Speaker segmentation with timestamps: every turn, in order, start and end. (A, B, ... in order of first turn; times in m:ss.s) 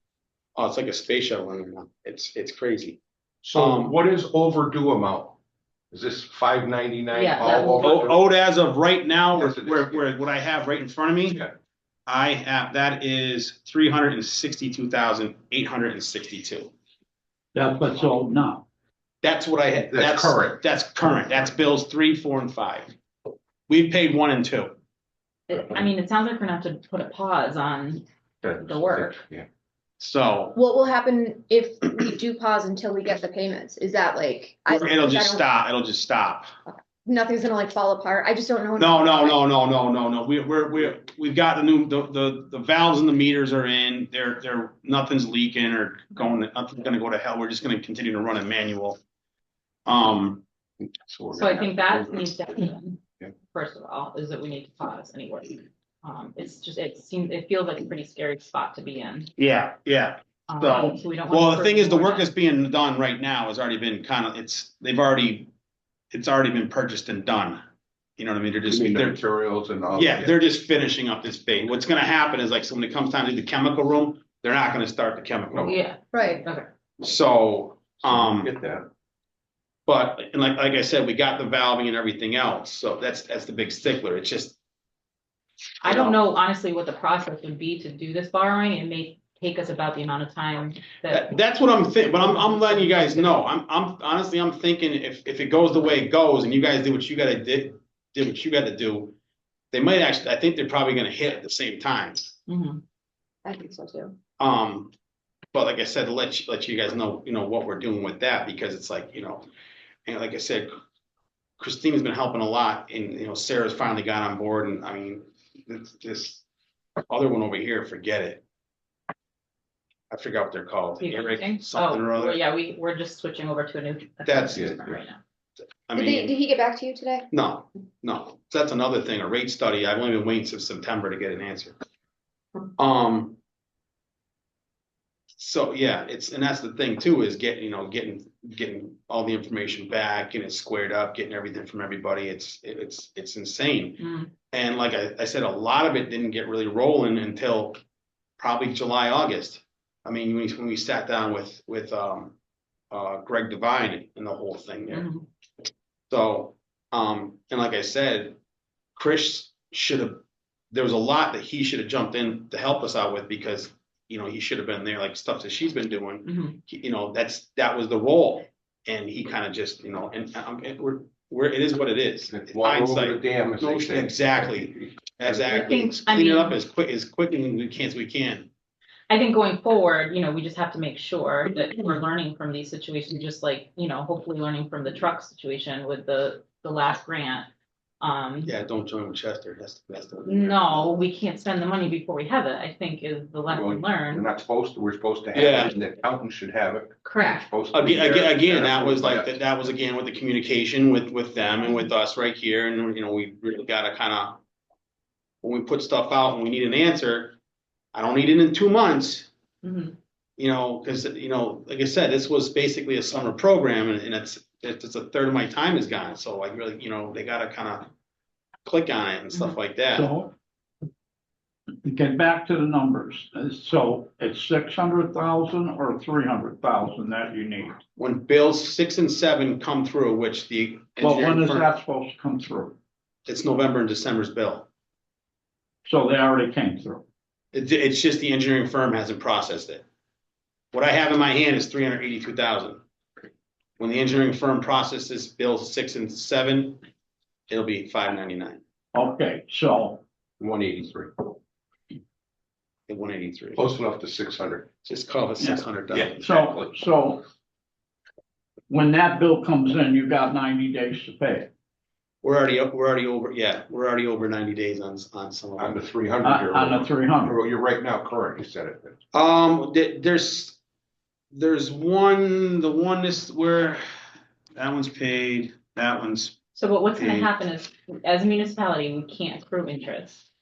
0:00.6-0:03.0 A
0:03.4-0:05.4 B
0:03.5-0:04.0 A
0:05.9-0:08.2 B
0:07.1-0:08.1 C
0:07.7-0:11.4 A
0:09.4-0:09.9 B
0:12.1-0:16.7 A
0:17.6-0:18.7 D
0:19.2-0:23.0 A
0:19.9-0:20.6 B
0:23.7-0:24.8 A
0:25.5-0:29.2 C
0:28.4-0:29.5 B
0:30.0-0:30.6 A
0:30.6-0:35.4 E
0:34.7-0:36.5 A
0:36.7-0:39.4 E
0:38.8-0:49.0 A
0:49.9-0:50.4 A
0:50.8-0:52.5 B
0:51.3-0:53.0 C
0:53.5-0:59.3 C
0:59.4-1:05.5 A
1:00.5-1:02.3 C
1:06.1-1:07.6 A
1:08.2-1:09.2 A
1:08.7-1:10.4 B
1:09.9-1:15.8 A
1:15.5-1:16.7 C
1:16.1-1:16.4 E
1:17.0-1:18.5 A
1:18.1-1:18.9 B
1:19.9-1:24.6 A
1:25.8-1:31.4 C
1:25.8-1:26.2 A
1:31.1-1:39.2 A
1:32.1-1:33.3 C
1:39.7-1:42.3 A
1:42.5-1:42.8 C
1:43.4-1:44.2 E
1:44.4-1:44.9 A
1:45.5-1:49.5 A
1:50.1-1:50.7 A
1:51.6-1:56.4 A
1:57.1-1:58.4 A
2:00.1-2:02.4 A
2:01.0-2:05.2 C
2:04.2-2:04.6 A
2:04.6-2:05.0 B
2:05.9-2:06.4 A
2:06.0-2:07.3 E
2:07.3-2:11.8 A
2:12.8-2:13.4 A
2:15.4-2:27.8 A
2:24.0-2:24.3 C
2:28.4-2:32.4 A
2:32.9-2:35.1 A
2:34.9-2:35.3 C
2:36.1-2:38.4 A
2:39.0-2:58.5 A
2:46.2-2:46.6 C
2:52.3-2:55.8 B
2:55.5-2:56.6 C
2:59.1-3:07.5 C
3:08.0-3:08.5 C
3:08.5-3:10.9 A
3:10.2-3:14.3 C
3:13.5-3:19.4 B
3:15.3-3:15.7 A
3:17.0-3:17.5 C
3:17.7-3:24.4 A
3:25.4-3:27.4 A
3:27.9-3:29.3 A
3:29.6-3:30.0 C
3:30.4-3:37.9 A
3:38.7-3:40.1 A
3:39.9-3:40.3 D
3:41.8-3:47.8 D
3:48.0-3:51.7 A
3:51.0-3:52.8 D
3:53.3-3:54.7 A
3:55.8-3:57.0 D
3:57.5-3:59.8 A
4:00.7-4:02.8 A
4:03.8-4:06.8 A
4:07.5-4:08.6 A
4:08.9-4:10.0 D
4:10.4-4:11.3 B
4:12.9-4:13.6 A
4:13.6-4:14.7 B
4:14.8-4:16.3 A
4:15.4-4:17.2 D
4:15.9-4:16.7 B
4:18.7-4:21.5 D
4:22.2-4:25.8 A
4:25.6-4:29.0 B
4:26.2-4:27.3 D
4:29.1-4:30.6 A
4:31.3-4:33.8 A
4:34.6-4:36.4 A
4:36.6-4:40.2 C
4:37.0-4:37.3 A